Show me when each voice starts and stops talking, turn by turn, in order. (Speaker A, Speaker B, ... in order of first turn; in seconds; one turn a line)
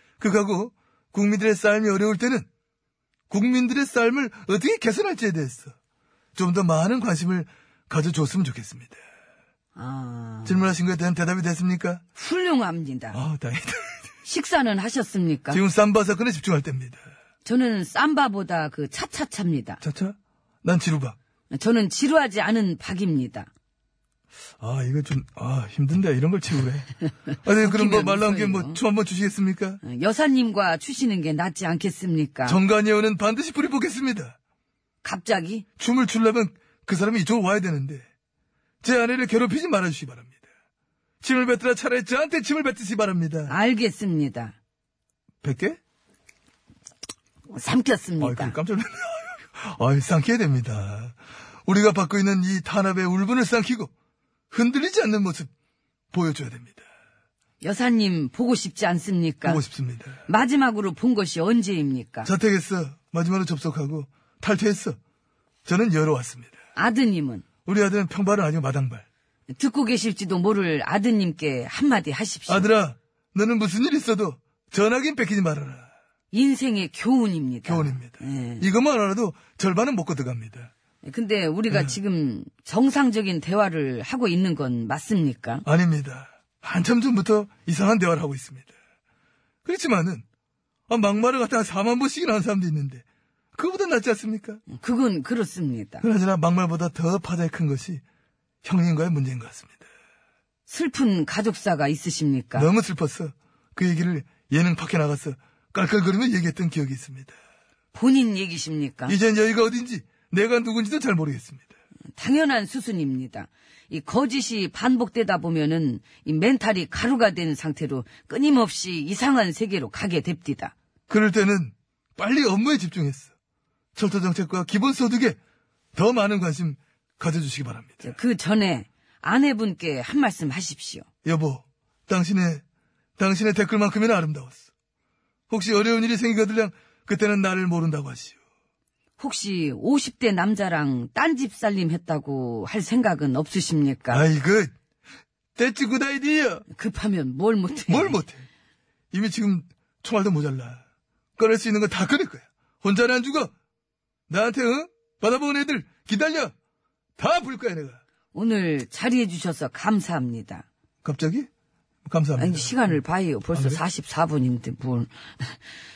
Speaker A: 0.2-2.5
Speaker A: 3.3-5.7
Speaker A: 6.3-9.0
Speaker B: 9.7-10.7
Speaker A: 10.4-12.0
Speaker B: 12.2-13.2
Speaker A: 13.1-14.1
Speaker B: 14.2-15.6
Speaker A: 15.5-17.0
Speaker B: 17.4-19.8
Speaker A: 19.8-21.1
Speaker B: 21.5-23.5
Speaker A: 24.6-29.8
Speaker B: 27.6-28.8
Speaker B: 29.8-32.6
Speaker A: 32.4-34.4
Speaker B: 35.0-35.6
Speaker A: 35.8-38.0
Speaker A: 38.8-40.4
Speaker A: 41.2-43.5
Speaker B: 43.5-44.5
Speaker A: 45.4-45.8
Speaker B: 47.5-48.5
Speaker A: 48.2-51.1
Speaker A: 51.7-53.9
Speaker A: 54.5-55.5
Speaker A: 56.1-56.8
Speaker B: 57.6-59.6
Speaker A: 59.4-60.2
Speaker B: 60.3-62.3
Speaker A: 62.2-65.0
Speaker A: 65.7-66.5
Speaker B: 66.8-67.4
Speaker A: 67.7-69.0
Speaker B: 69.5-72.7
Speaker A: 72.5-75.9
Speaker B: 76.3-78.7
Speaker A: 77.6-80.7
Speaker B: 81.0-85.6
Speaker A: 81.7-82.0
Speaker A: 85.6-88.7
Speaker A: 89.6-90.2
Speaker A: 90.9-93.0
Speaker A: 93.5-94.6
Speaker B: 94.7-96.0
Speaker A: 96.0-98.0
Speaker A: 98.6-99.8
Speaker B: 100.7-102.7
Speaker A: 102.5-107.3
Speaker B: 107.9-109.2
Speaker A: 109.1-111.7
Speaker B: 112.1-120.7
Speaker A: 121.1-123.3
Speaker A: 124.0-125.4
Speaker A: 125.9-128.1
Speaker B: 128.0-131.1
Speaker A: 131.2-132.6
Speaker A: 133.2-134.6
Speaker A: 135.5-138.3
Speaker B: 139.2-144.2
Speaker A: 144.1-144.7
Speaker A: 145.6-146.6
Speaker B: 146.7-148.2
Speaker A: 147.9-148.4
Speaker A: 149.1-150.8
Speaker A: 151.4-153.5
Speaker A: 154.3-156.5
Speaker A: 157.2-158.0
Speaker B: 158.3-160.7
Speaker A: 161.0-161.5
Speaker A: 162.1-163.0
Speaker B: 162.4-165.6
Speaker A: 163.5-163.8